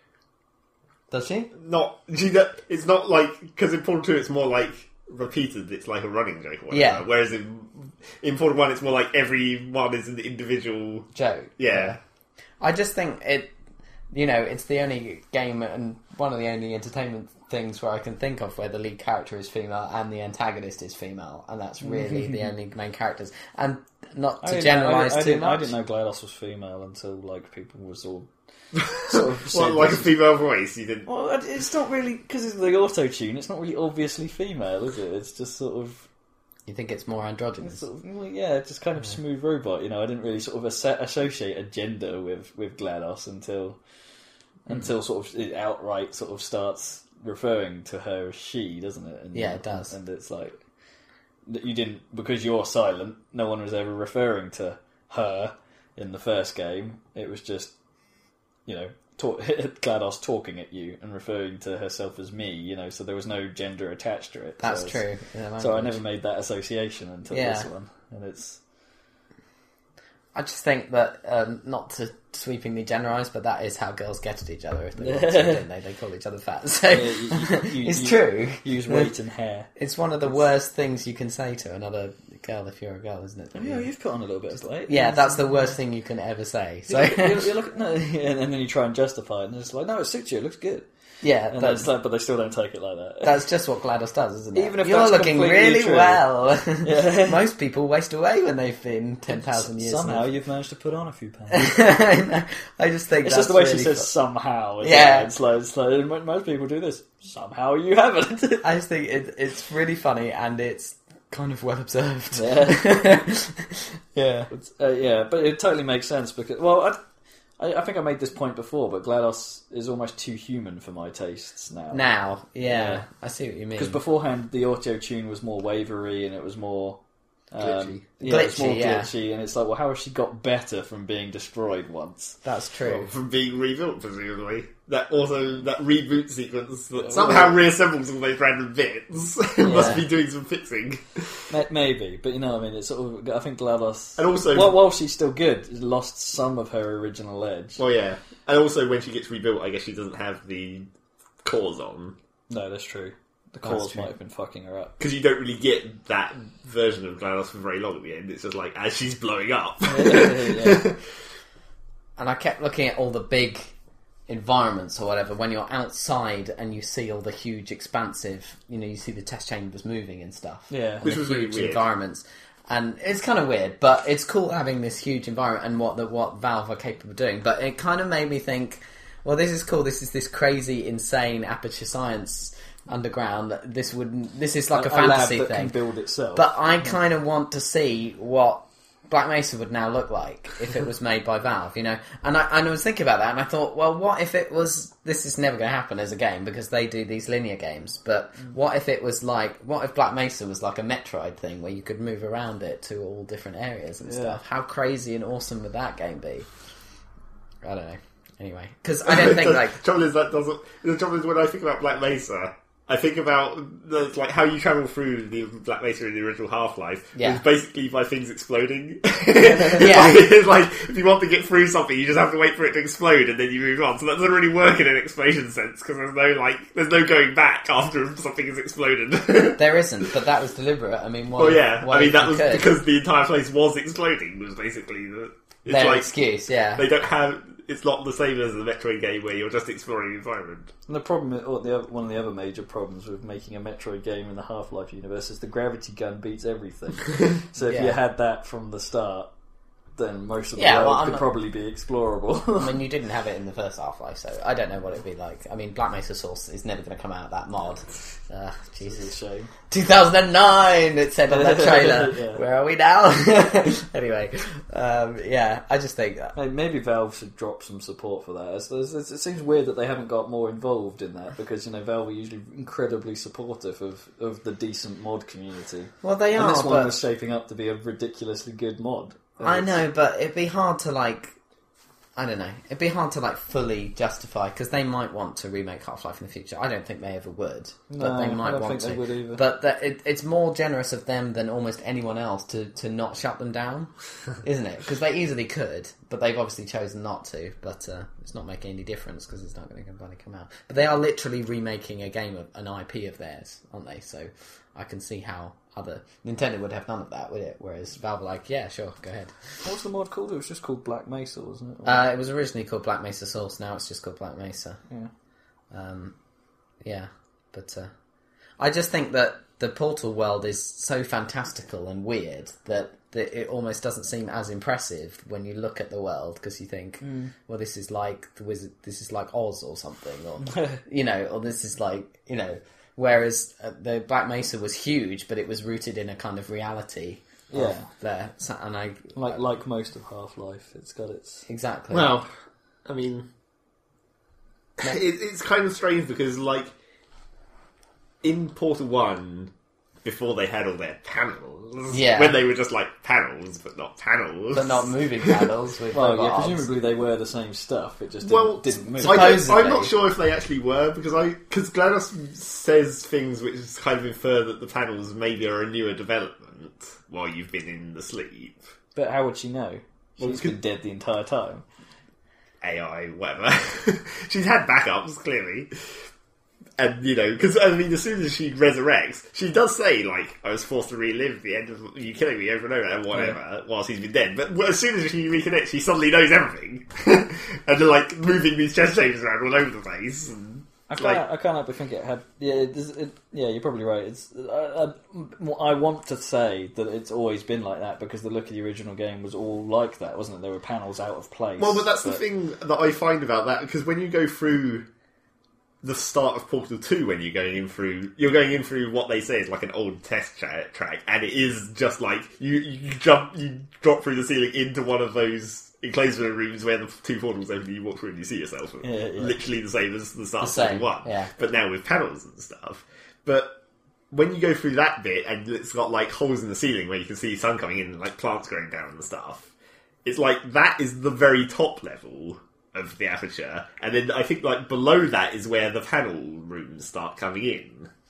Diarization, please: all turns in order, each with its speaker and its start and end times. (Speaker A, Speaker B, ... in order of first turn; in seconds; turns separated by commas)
Speaker A: 1.1-1.5, Speaker B: 1.5-12.0, Speaker A: 6.7-7.0, Speaker A: 11.1-12.0, Speaker A: 12.6-13.5, Speaker A: 14.1-25.7, Speaker C: 21.8-22.5, Speaker C: 24.4-28.3, Speaker B: 28.8-31.1, Speaker C: 28.8-30.2, Speaker C: 31.1-36.1, Speaker A: 36.6-37.8, Speaker C: 37.6-43.8, Speaker C: 44.6-50.6, Speaker A: 49.3-49.9, Speaker C: 51.5-57.7, Speaker C: 58.6-65.0, Speaker A: 64.6-66.0, Speaker C: 65.6-68.6, Speaker A: 67.3-67.7, Speaker A: 70.3-79.1, Speaker C: 75.0-75.6, Speaker C: 76.9-79.7, Speaker A: 79.8-83.9, Speaker C: 83.5-85.5, Speaker A: 84.9-87.5, Speaker C: 86.9-90.9, Speaker A: 91.2-91.9, Speaker C: 91.5-93.4, Speaker A: 93.2-100.3, Speaker C: 94.5-96.2, Speaker C: 96.8-97.4, Speaker C: 99.3-101.7, Speaker A: 101.5-104.1, Speaker C: 103.2-108.7, Speaker A: 104.8-105.3, Speaker A: 108.6-114.5, Speaker C: 112.3-112.8, Speaker C: 114.5-117.0, Speaker C: 117.6-122.1, Speaker A: 121.9-124.0, Speaker C: 122.6-123.0, Speaker C: 123.8-127.0, Speaker C: 127.5-132.4, Speaker A: 127.6-129.1, Speaker A: 132.4-133.1, Speaker B: 132.8-141.5, Speaker C: 137.0-137.6, Speaker A: 139.6-140.1, Speaker C: 139.6-140.0, Speaker C: 141.5-147.8, Speaker B: 144.2-144.8, Speaker B: 147.8-150.9, Speaker B: 151.4-152.2, Speaker C: 152.5-154.9, Speaker A: 153.6-154.1, Speaker B: 155.0-161.0, Speaker C: 159.8-160.9, Speaker A: 162.2-163.7, Speaker A: 164.3-185.8, Speaker C: 170.7-171.1, Speaker B: 171.0-171.8, Speaker C: 184.7-186.5, Speaker A: 186.3-206.5, Speaker C: 204.0-204.4, Speaker A: 207.6-209.8, Speaker B: 209.1-229.6, Speaker A: 217.2-217.4, Speaker C: 219.5-219.8, Speaker A: 219.7-220.3, Speaker A: 229.6-232.7, Speaker B: 231.3-236.1, Speaker A: 235.7-236.8, Speaker B: 236.8-240.7, Speaker C: 240.9-249.3, Speaker A: 247.6-247.9, Speaker C: 249.9-252.8, Speaker A: 250.6-251.2, Speaker A: 252.6-259.1, Speaker C: 258.8-259.5, Speaker A: 259.7-266.3, Speaker C: 261.3-262.4, Speaker C: 266.3-279.8, Speaker A: 276.0-277.0, Speaker A: 279.4-281.3, Speaker A: 282.1-293.9, Speaker C: 287.9-289.4, Speaker A: 294.4-309.3, Speaker C: 309.6-312.0, Speaker A: 311.8-314.8, Speaker A: 315.7-316.1, Speaker A: 316.8-317.9, Speaker A: 318.6-339.4, Speaker C: 327.0-327.3, Speaker C: 330.4-330.8, Speaker C: 337.5-337.9, Speaker C: 339.1-341.4, Speaker A: 341.5-342.1, Speaker B: 341.9-342.3, Speaker B: 342.9-343.3, Speaker B: 344.8-346.7, Speaker B: 348.2-349.5, Speaker B: 350.0-355.5, Speaker A: 351.9-352.4, Speaker A: 354.5-356.7, Speaker C: 355.9-359.4, Speaker B: 358.2-368.6, Speaker A: 359.0-359.9, Speaker C: 368.9-371.6, Speaker B: 370.2-370.6, Speaker B: 372.6-375.7, Speaker B: 376.8-391.2, Speaker C: 383.1-383.4, Speaker C: 390.9-402.2, Speaker B: 401.6-404.9, Speaker B: 405.8-423.5, Speaker C: 418.8-419.4, Speaker A: 420.4-421.3, Speaker B: 424.1-429.5, Speaker B: 430.0-437.9